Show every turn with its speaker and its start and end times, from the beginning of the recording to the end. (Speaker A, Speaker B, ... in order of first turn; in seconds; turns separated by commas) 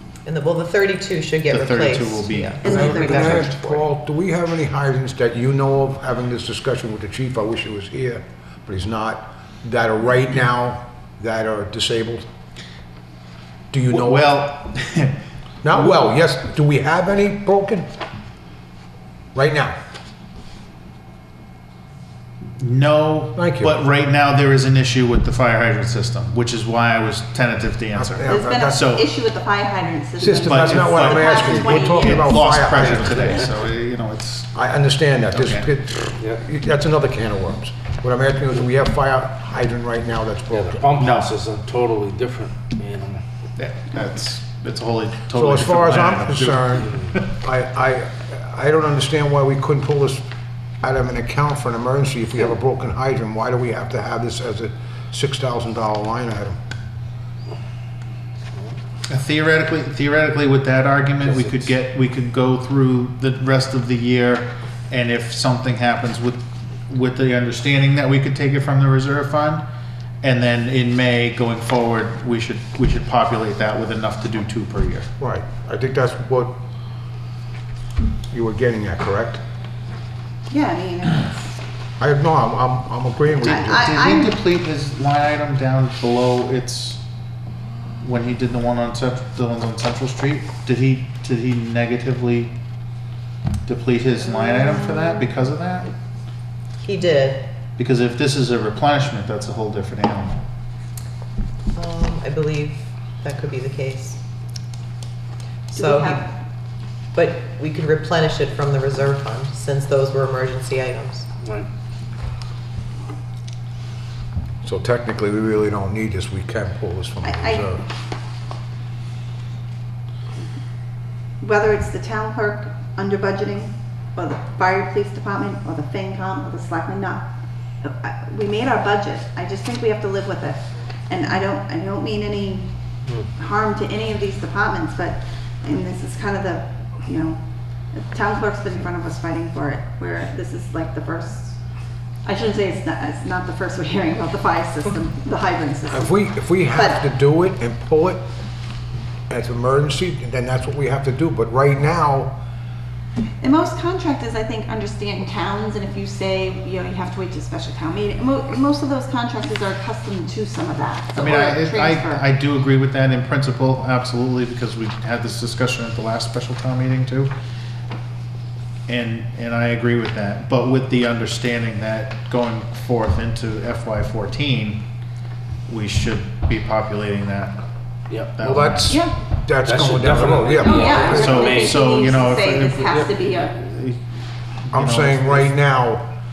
Speaker A: 0.2-3.5, Speaker B: 1.5-3.8, Speaker C: 2.6-3.4, Speaker D: 2.7-12.2, Speaker D: 13.7-14.3, Speaker B: 13.9-15.2, Speaker D: 15.6-17.9, Speaker D: 19.3-19.8, Speaker B: 22.6-29.1, Speaker D: 23.4-23.7, Speaker D: 27.9-28.8, Speaker C: 28.2-32.6, Speaker D: 30.2-33.5, Speaker B: 30.4-34.5, Speaker D: 34.5-40.9, Speaker B: 35.3-35.7, Speaker E: 40.5-43.2, Speaker B: 41.0-41.3, Speaker B: 43.6-46.9, Speaker D: 45.3-50.2, Speaker D: 50.8-56.6, Speaker B: 59.1-69.6, Speaker B: 70.2-75.1, Speaker D: 75.2-76.6, Speaker D: 78.3-79.4, Speaker C: 80.5-81.6, Speaker D: 82.0-83.8, Speaker B: 83.5-87.0, Speaker C: 83.5-84.4, Speaker B: 88.0-92.5, Speaker B: 93.7-95.9, Speaker A: 94.3-95.2, Speaker A: 96.8-97.5, Speaker B: 97.8-100.4, Speaker A: 101.7-104.2, Speaker A: 105.7-106.3, Speaker C: 105.7-106.3, Speaker A: 107.1-111.3, Speaker D: 114.6-117.8, Speaker C: 117.2-117.7, Speaker C: 121.4-127.3, Speaker C: 127.8-132.7, Speaker C: 133.3-137.4, Speaker C: 137.9-141.6, Speaker C: 142.2-147.0, Speaker D: 145.9-148.2, Speaker D: 149.3-152.3, Speaker C: 153.4-162.2, Speaker B: 161.1-167.3, Speaker B: 168.9-174.8, Speaker B: 175.7-177.6, Speaker B: 178.3-179.0, Speaker D: 178.4-181.4, Speaker C: 178.9-179.1, Speaker E: 179.6-182.0, Speaker C: 180.6-183.6, Speaker B: 181.1-184.0, Speaker E: 182.7-183.1, Speaker B: 184.7-185.5, Speaker D: 184.7-186.1